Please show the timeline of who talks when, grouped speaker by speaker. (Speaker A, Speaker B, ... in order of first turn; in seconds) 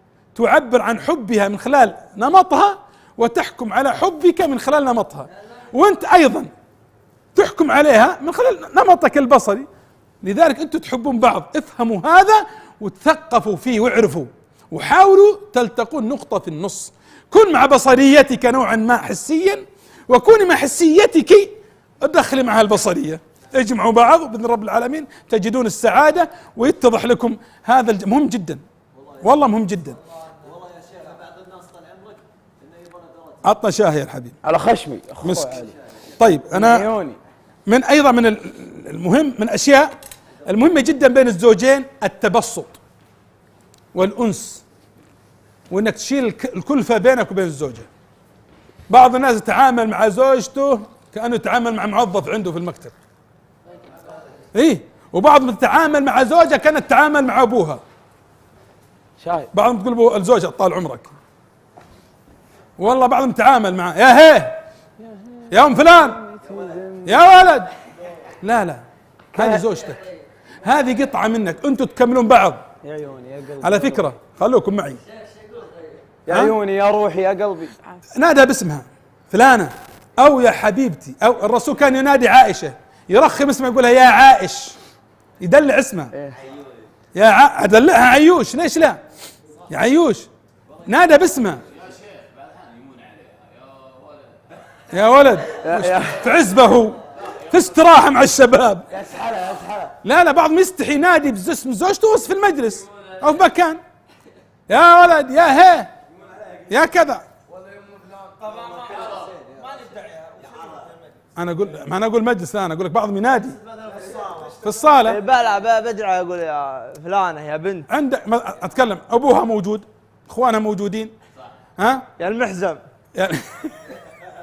Speaker A: 0.3-6.5, 7.3-9.7, 10.2-28.6, 29.2-30.0, 33.4-34.4, 35.2-35.6, 36.2-36.9, 37.7-42.8, 43.9-44.6, 45.7-47.9, 48.9-53.0, 54.5-57.8, 59.5-61.1, 62.8-64.6, 65.5-66.2, 67.0-67.7, 68.4-68.8, 69.3-70.0, 70.6-72.6, 73.6-75.0, 76.3-76.5, 78.2-84.8, 85.4-86.1, 87.1-89.0, 89.7-90.3, 90.8-91.7, 94.9-98.9, 100.0-103.8, 104.7-105.9, 106.7-107.2, 111.4-113.6, 114.6-115.2, 117.9-121.1, 121.8-122.1, 123.2-124.0
Speaker B: 29.0-29.3, 30.1-33.5, 86.4-86.8, 107.9-111.2, 113.4-114.9
Speaker C: 34.4-35.8, 36.4-37.2, 59.2-59.5, 65.0-67.3, 69.3-69.7, 72.8-74.1, 76.3-77.8, 86.1-86.4, 95.6-96.2, 98.9-100.0
Speaker D: 108.4-110.4, 115.0-117.9, 122.2-122.8